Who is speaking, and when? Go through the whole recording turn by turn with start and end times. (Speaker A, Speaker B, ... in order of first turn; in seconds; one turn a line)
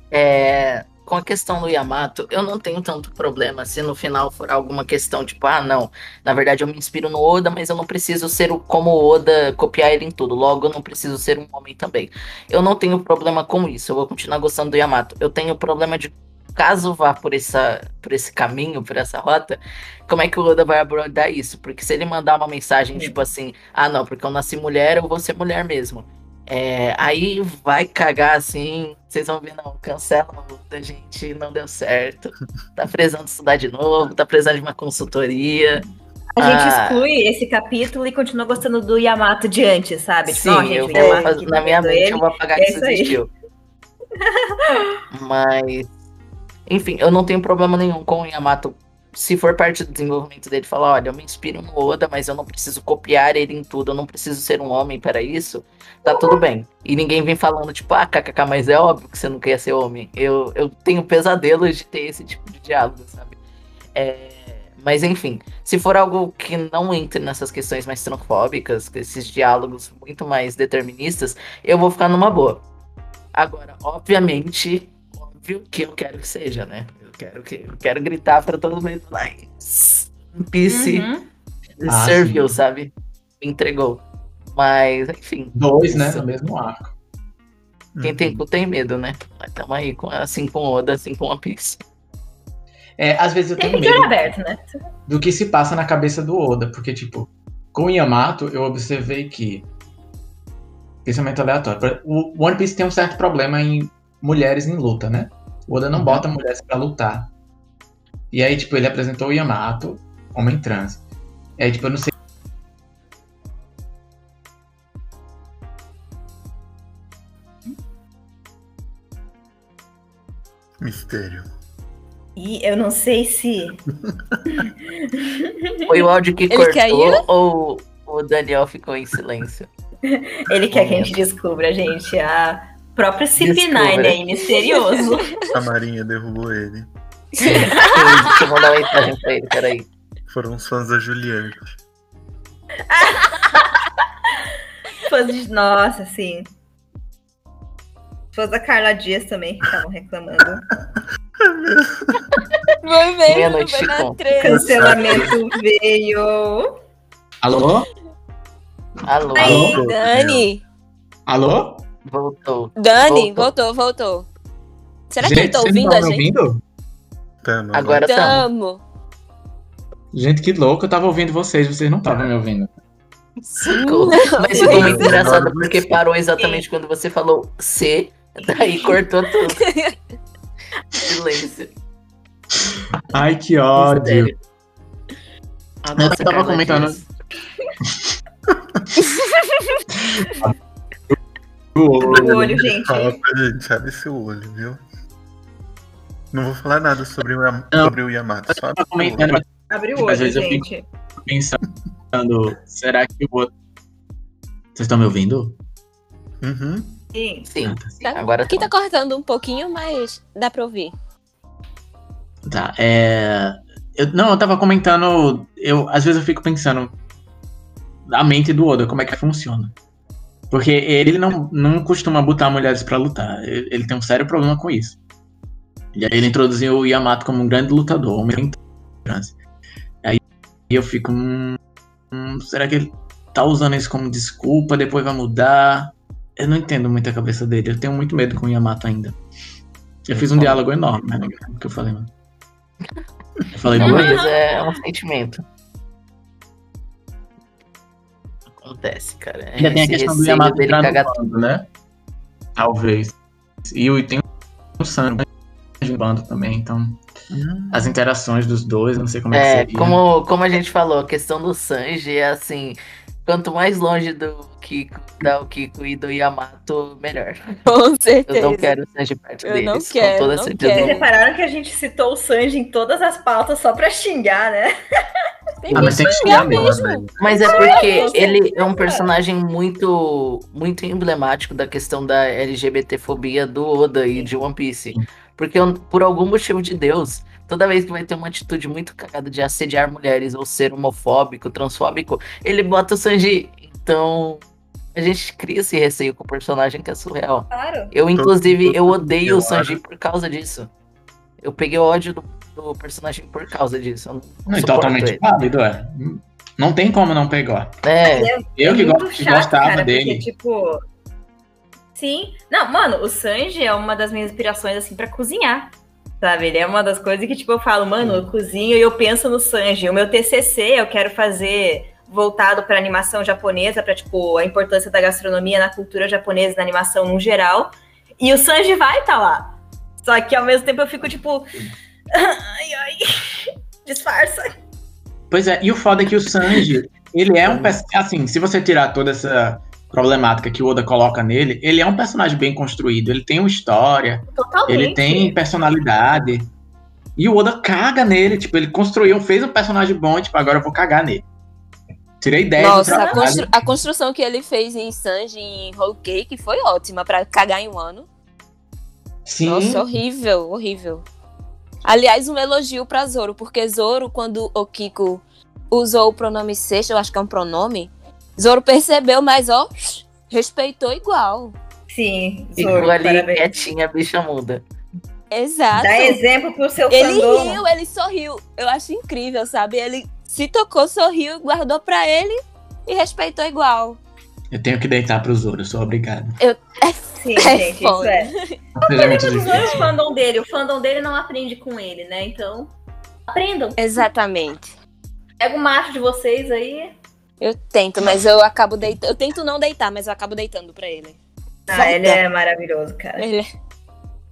Speaker A: 0.1-35.8
Speaker B: 36.4-43.2
Speaker A: 36.4-37.0
Speaker A: 40.3-43.3
Speaker B: 44.2-45.0
Speaker A: 45.1-45.9
Speaker A: 46.7-63.4
Speaker B: 56.1-56.4
Speaker A: 64.0-72.6
Speaker A: 73.3-81.1
Speaker B: 80.7-81.3
Speaker A: 81.8-84.0
Speaker C: 81.9-82.5
Speaker A: 84.5-86.3
Speaker C: 85.5-86.9
Speaker D: 88.0-88.4
Speaker A: 88.0-91.8
Speaker C: 93.0-94.3
Speaker B: 93.6-94.7
Speaker C: 95.1-99.7
Speaker C: 101.0-107.3
Speaker C: 108.3-111.0
Speaker C: 111.6-112.1
Speaker D: 120.8-121.5
Speaker B: 122.4-123.8
Speaker D: 124.1-124.7
Speaker B: 124.5-125.8
Speaker A: 125.9-129.7
Speaker E: 126.5-127.2
Speaker B: 130.1-135.3
Speaker A: 130.7-131.2
Speaker A: 133.4-134.2
Speaker D: 135.5-136.9
Speaker E: 137.4-138.0
Speaker A: 137.4-139.9
Speaker B: 137.5-138.0
Speaker D: 140.3-141.8
Speaker B: 142.9-143.7
Speaker B: 145.0-146.5
Speaker B: 148.3-150.7
Speaker D: 151.4-152.5
Speaker E: 152.8-155.3
Speaker A: 153.3-154.2
Speaker B: 154.4-156.7
Speaker D: 154.4-155.4
Speaker C: 157.4-157.9
Speaker A: 159.1-159.8
Speaker D: 159.1-160.5
Speaker B: 159.4-159.7
Speaker C: 159.4-159.8
Speaker E: 159.8-160.6
Speaker C: 161.3-161.8
Speaker A: 162.1-163.5
Speaker E: 162.8-164.3
Speaker E: 165.1-166.3
Speaker C: 165.2-166.6
Speaker D: 167.4-168.1
Speaker A: 167.7-168.5
Speaker E: 168.0-168.8
Speaker C: 170.1-172.7
Speaker A: 173.5-179.7
Speaker E: 173.8-175.0
Speaker D: 174.6-175.9
Speaker B: 176.4-176.6
Speaker E: 179.6-180.0
Speaker A: 181.1-181.7
Speaker C: 183.1-184.3
Speaker A: 183.8-184.4
Speaker A: 185.8-187.1
Speaker C: 185.9-187.0
Speaker D: 188.5-188.8
Speaker C: 190.0-190.5
Speaker C: 191.8-192.4
Speaker B: 192.0-193.2
Speaker D: 192.1-194.8
Speaker D: 196.3-199.4
Speaker C: 198.5-201.6
Speaker B: 199.7-200.8
Speaker C: 202.1-203.5
Speaker C: 204.8-205.6
Speaker D: 206.4-207.0
Speaker B: 207.2-207.5
Speaker A: 207.5-208.7
Speaker C: 207.6-208.0
Speaker E: 208.0-210.9
Speaker C: 212.5-216.9
Speaker C: 218.1-219.7
Speaker C: 220.5-225.0
Speaker C: 225.9-229.3
Speaker C: 230.0-231.6
Speaker C: 232.1-239.2
Speaker C: 240.1-242.1
Speaker C: 243.5-244.2
Speaker A: 243.7-245.4
Speaker B: 243.8-244.4
Speaker A: 248.6-251.1
Speaker C: 249.6-251.7
Speaker C: 252.6-253.1
Speaker C: 253.7-254.2
Speaker C: 254.8-255.3
Speaker C: 255.8-257.0
Speaker D: 257.3-258.0
Speaker C: 257.7-260.0
Speaker A: 259.3-267.4
Speaker E: 267.7-268.7
Speaker A: 268.3-271.0
Speaker E: 269.4-271.1
Speaker B: 270.8-274.7
Speaker E: 275.6-278.2
Speaker C: 275.7-277.2
Speaker B: 275.8-276.8
Speaker A: 277.2-294.4
Speaker B: 277.3-279.1
Speaker A: 294.9-300.7
Speaker B: 297.5-297.9
Speaker D: 298.1-299.8
Speaker A: 301.4-305.5
Speaker C: 304.5-307.8
Speaker A: 307.8-308.3
Speaker B: 308.1-310.8
Speaker C: 308.6-310.3
Speaker B: 312.0-331.5
Speaker B: 332.1-334.5
Speaker C: 335.3-346.5
Speaker D: 337.4-337.8
Speaker B: 344.4-345.4
Speaker C: 347.2-351.3
Speaker C: 352.2-353.7
Speaker E: 352.6-358.1
Speaker B: 352.9-353.2
Speaker C: 359.3-359.9
Speaker E: 359.4-361.1
Speaker E: 361.9-371.6
Speaker B: 371.9-373.5
Speaker A: 372.6-374.6
Speaker E: 375.3-376.2
Speaker B: 375.8-377.6
Speaker E: 376.9-384.0
Speaker C: 384.5-386.4
Speaker E: 386.4-388.6
Speaker B: 387.2-388.3
Speaker C: 388.8-389.9
Speaker B: 388.8-392.7
Speaker B: 393.3-394.0
Speaker E: 393.8-394.7
Speaker B: 395.4-396.9
Speaker E: 397.4-401.2
Speaker B: 401.7-403.3
Speaker E: 401.7-402.2
Speaker E: 403.2-403.5